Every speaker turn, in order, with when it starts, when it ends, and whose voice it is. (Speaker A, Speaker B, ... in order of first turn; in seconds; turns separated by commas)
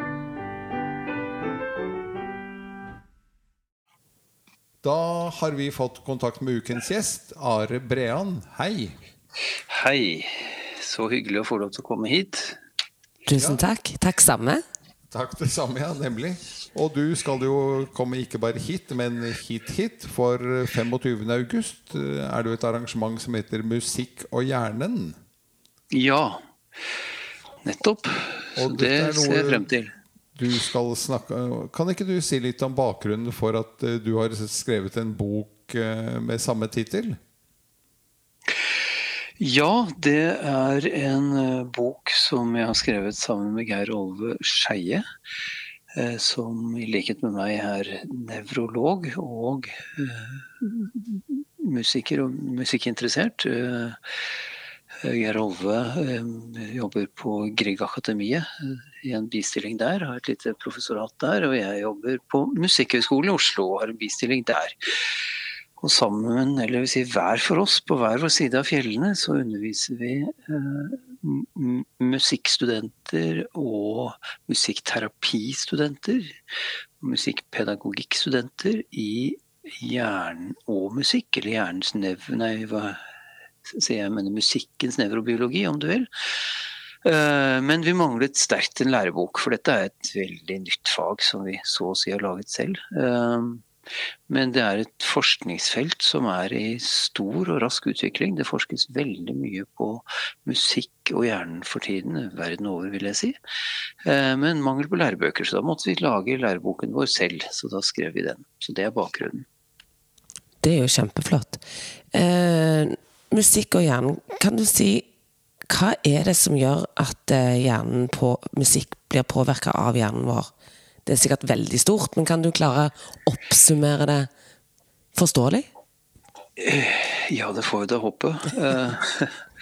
Speaker A: 4.8-8.9, Speaker B: 9.6-12.6, Speaker C: 13.2-14.6, Speaker A: 13.3-13.6, Speaker A: 15.1-25.2, Speaker B: 25.9-26.4, Speaker B: 27.6-29.9, Speaker A: 28.6-29.6, Speaker A: 30.3-37.2, Speaker B: 39.4-45.0, Speaker B: 45.9-54.0, Speaker B: 55.0-65.2, Speaker B: 65.8-76.4, Speaker B: 77.0-83.0, Speaker B: 83.6-93.6, Speaker B: 94.3-103.3, Speaker B: 104.0-109.5, Speaker C: 110.6-111.6, Speaker C: 112.1-115.0, Speaker C: 115.7-120.5, Speaker C: 121.0-124.3, Speaker C: 125.1-125.7, Speaker B: 126.6-129.3